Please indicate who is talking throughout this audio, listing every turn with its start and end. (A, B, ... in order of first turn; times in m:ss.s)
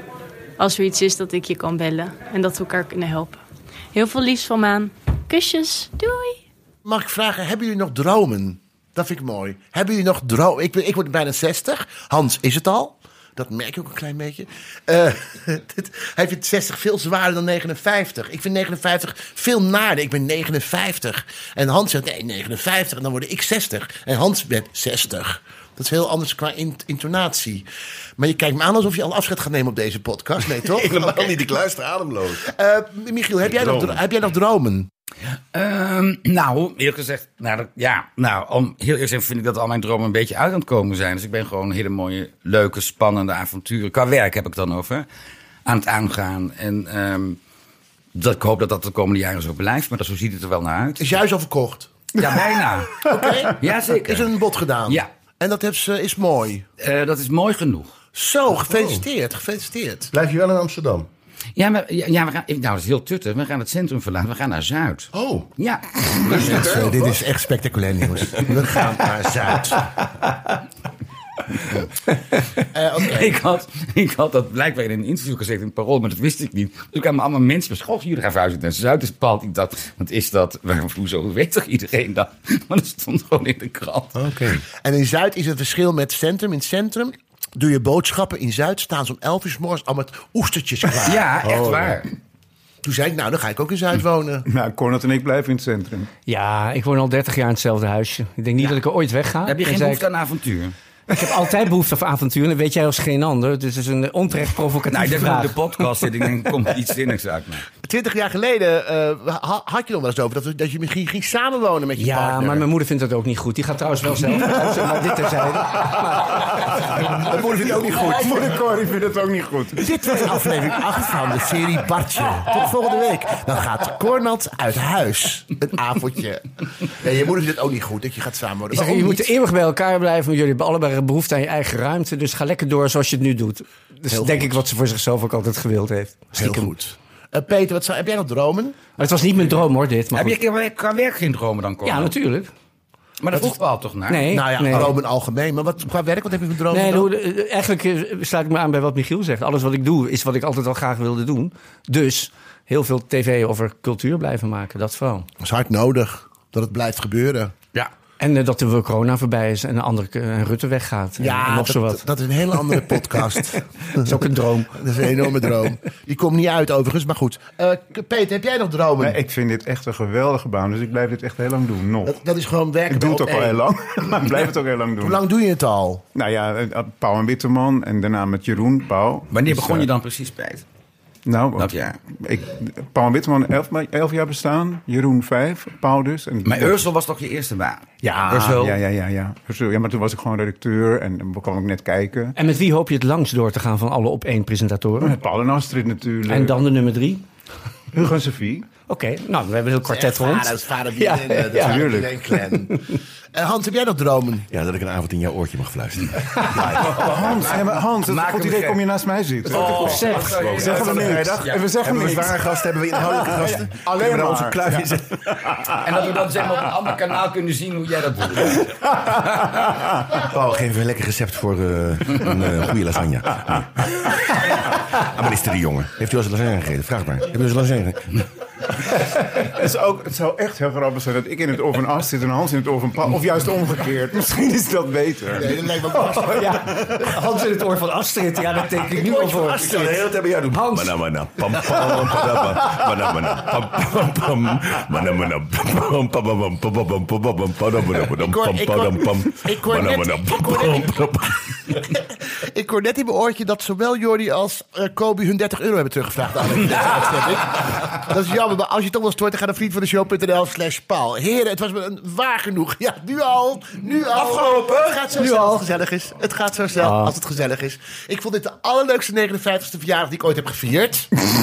0:00.6-0:03.4 A
0:03.9-0:06.4 A
0:06.8-0:27.6 B
0:28.2-0:31.5 B
0:30.6-0:32.4 C
0:32.4-0:34.9 B
0:33.4-0:34.0 C
0:35.5-0:45.0 D
0:45.6-0:47.4 D
0:48.1-0:51.2 D
0:51.0-0:51.9 B
0:52.1-0:53.1 D
0:53.0-0:56.6 B
0:53.6-0:54.3 D
0:56.8-0:57.9 D
0:58.1-1:00.1 B
0:58.7-0:59.0 C
1:00.1-1:01.1 C
1:01.6-1:06.8 D
1:05.1-1:05.5 C
1:06.1-1:07.2 C
1:06.4-1:09.8 B
1:08.7-1:09.7 C
1:12.7-1:13.4 B
1:13.0-1:24.1 D
1:24.1-1:24.6 C
1:24.8-1:31.4 B
1:31.0-1:32.1 D
1:31.4-1:32.0 C
1:32.8-1:34.4 B
1:34.4-1:36.1 E
1:36.3-1:40.0 F
1:39.4-1:40.7 D
1:41.1-1:46.1 F
1:44.9-1:47.6 D
1:47.8-1:52.7 B
1:52.0-1:57.0 F
1:56.9-1:58.6 B
1:57.9-1:59.9 E
1:59.8-2:09.3 B
2:08.7-2:16.7 F
2:14.1-2:14.6 B
2:16.3-2:18.8 B
2:19.0-2:20.4 F
2:20.1-2:22.1 D
2:21.8-2:22.5 F
2:23.2-2:24.3 D
2:24.1-2:25.0 F
2:24.3-2:27.1 B
2:26.7-2:35.3 F
2:35.4-2:37.5 B
2:38.2-2:42.0 F
2:41.2-2:44.2 B
2:42.6-2:44.8 F
2:44.7-2:49.2 B
2:49.0-2:52.1 E
2:52.0-2:53.6 B
2:52.9-2:55.2 E
2:55.0-2:56.0 B
2:56.1-2:59.9 E
2:59.3-3:00.6 D
3:01.2-3:06.9 E
3:01.6-3:02.0 D
3:06.4-3:08.8 D
3:08.0-3:12.4 E
3:12.4-3:15.2 F
3:15.0-3:16.6 E
3:16.2-3:17.2 F
3:17.9-3:18.7 E
3:18.9-3:22.0 F
3:19.9-3:24.5 B
3:21.6-3:22.1 E
3:24.5-3:27.4 C
3:26.7-3:32.4 E
3:27.1-3:28.8 D
3:29.4-3:31.2 F
3:29.5-3:31.7 D
3:29.5-3:35.1 C
3:33.0-3:34.8 E
3:35.5-3:35.8 E
3:35.8-3:38.7 D
3:40.2-3:44.5 C
3:45.0-3:48.1 C
3:49.4-3:55.7 E
3:55.3-3:56.4 B
3:55.8-3:59.9 F
3:58.9-4:00.0 B
3:59.5-4:11.8 C
4:00.5-4:01.0 F
4:08.2-4:31.1 B
4:24.3-4:24.8 C
4:26.8-4:27.1 F